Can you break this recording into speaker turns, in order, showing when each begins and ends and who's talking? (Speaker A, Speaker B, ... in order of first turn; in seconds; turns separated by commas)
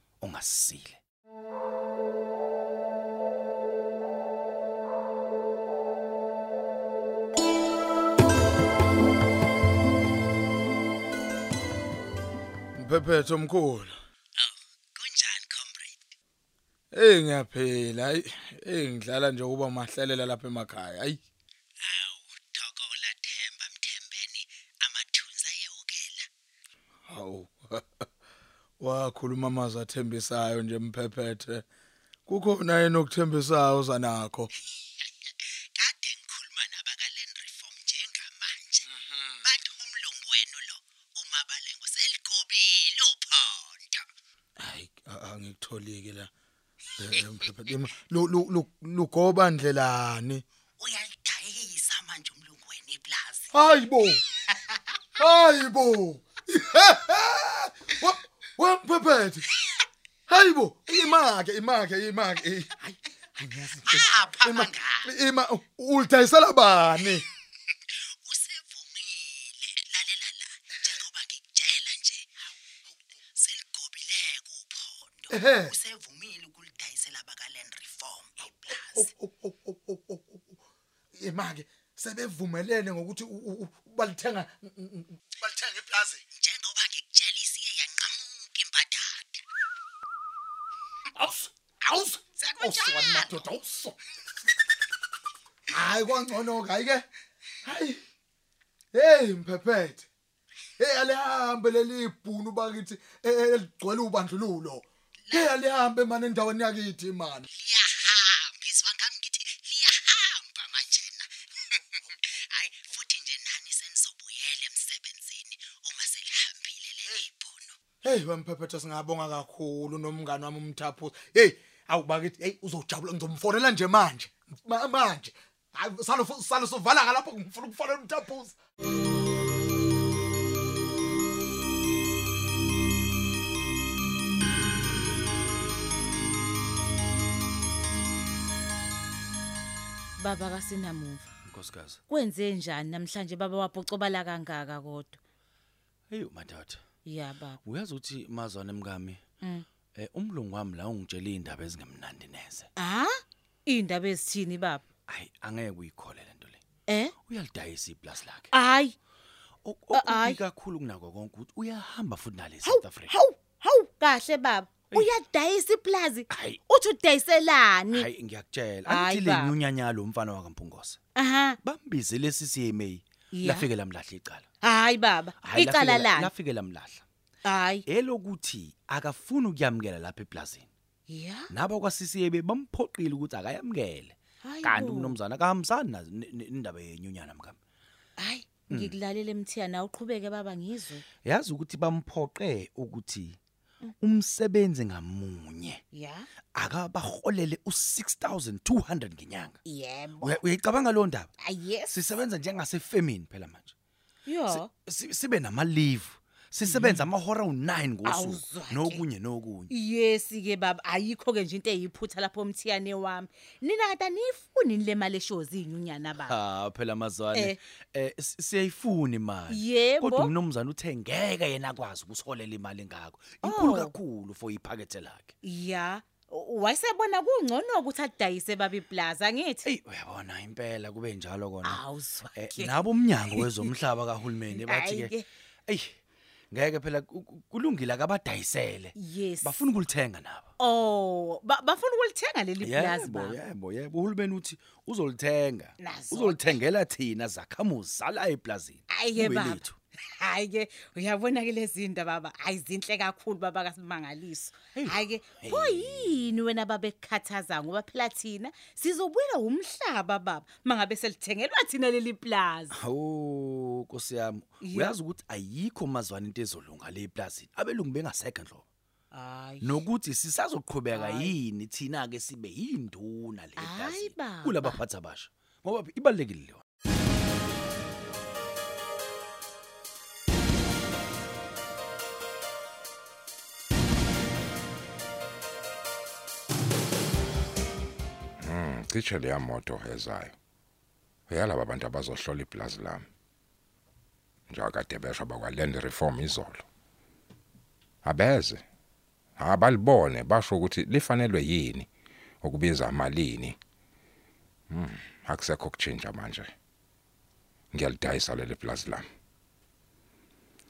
Speaker A: 0.2-1.0, Speaker B: 12.8-14.0, Speaker C: 14.4-16.0, Speaker B: 16.9-21.2, Speaker C: 21.8-26.3, Speaker B: 27.1-27.8, Speaker B: 28.8-31.6, Speaker B: 32.3-34.5, Speaker C: 35.8-44.0, Speaker B: 44.6-46.3, Speaker C: 47.0-47.8, Speaker B: 47.1-50.4, Speaker C: 50.8-53.5, Speaker B: 53.5-54.2, Speaker C: 54.1-54.8, Speaker B: 55.2-59.4, Speaker B: 60.3-62.7, Speaker C: 62.9-65.1, Speaker B: 63.4-67.2, Speaker C: 68.1-72.3, Speaker C: 73.3-79.1, Speaker B: 75.3-75.7, Speaker B: 78.9-80.5, Speaker B: 81.2-86.2, Speaker C: 86.3-89.4, Speaker B: 91.2-94.0, Speaker C: 92.4-93.5, Speaker B: 95.7-97.0, Speaker B: 97.7-98.0, Speaker B: 98.9-100.1, Speaker B: 100.8-107.4, Speaker C: 105.3-105.6, Speaker C: 107.5-117.8, Speaker B: 118.0-128.6, Speaker D: 140.2-141.3, Speaker A: 141.5-142.0, Speaker D: 142.1-145.2, Speaker A: 146.1-146.8, Speaker D: 147.1-147.6, Speaker A: 147.7-149.2, Speaker A: 150.0-152.7, Speaker D: 152.8-154.8, Speaker A: 155.1-156.6, Speaker D: 156.9-157.1, Speaker A: 157.3-158.5, Speaker D: 158.5-158.9, Speaker A: 159.6-163.1, Speaker D: 159.9-160.4, Speaker D: 162.6-168.1, Speaker A: 166.3-166.6, Speaker A: 167.9-171.0, Speaker D: 168.9-169.6, Speaker D: 171.2-171.6, Speaker A: 171.6-174.5, Speaker D: 173.3-173.7, Speaker D: 174.6-176.3, Speaker A: 175.4-177.0, Speaker D: 177.4-177.8, Speaker A: 177.9-180.7, Speaker D: 181.1-181.5, Speaker A: 181.5-187.6, Speaker D: 184.4-185.2, Speaker D: 188.2-191.0, Speaker A: 191.2-193.4, Speaker A: 194.0-195.8, Speaker D: 195.9-196.3, Speaker A: 196.6-199.6, Speaker D: 199.7-200.4, Speaker A: 200.2-201.3, Speaker D: 201.4-202.0, Speaker A: 201.9-203.7, Speaker D: 204.3-204.7, Speaker A: 204.5-209.7, Speaker D: 206.7-207.1, Speaker D: 208.1-209.0, Speaker D: 209.7-216.4, Speaker A: 216.2-225.3, Speaker D: 217.3-217.6, Speaker D: 219.5-220.3, Speaker D: 223.4-223.9, Speaker D: 225.4-229.7, Speaker A: 229.7-231.8, Speaker D: 231.6-233.7, Speaker A: 232.4-235.1, Speaker D: 234.5-235.2, Speaker A: 235.7-235.9, Speaker A: 236.5-240.5, Speaker D: 239.0-239.6, Speaker D: 240.6-243.4, Speaker A: 242.6-249.8, Speaker D: 245.8-246.6, Speaker D: 248.9-249.6, Speaker D: 250.2-262.8, Speaker A: 254.8-256.1, Speaker A: 262.8-268.7, Speaker D: 264.6-265.0, Speaker D: 269.1-269.9, Speaker A: 269.6-276.6, Speaker D: 270.9-271.4, Speaker D: 273.6-274.8, Speaker E: 288.4-290.4, Speaker E: 291.3-293.1, Speaker E: 294.5-296.7, Speaker E: 298.0-298.6, Speaker E: 299.4-301.9, Speaker E: 302.4-303.6, Speaker E: 304.7-306.5, Speaker E: 307.7-309.1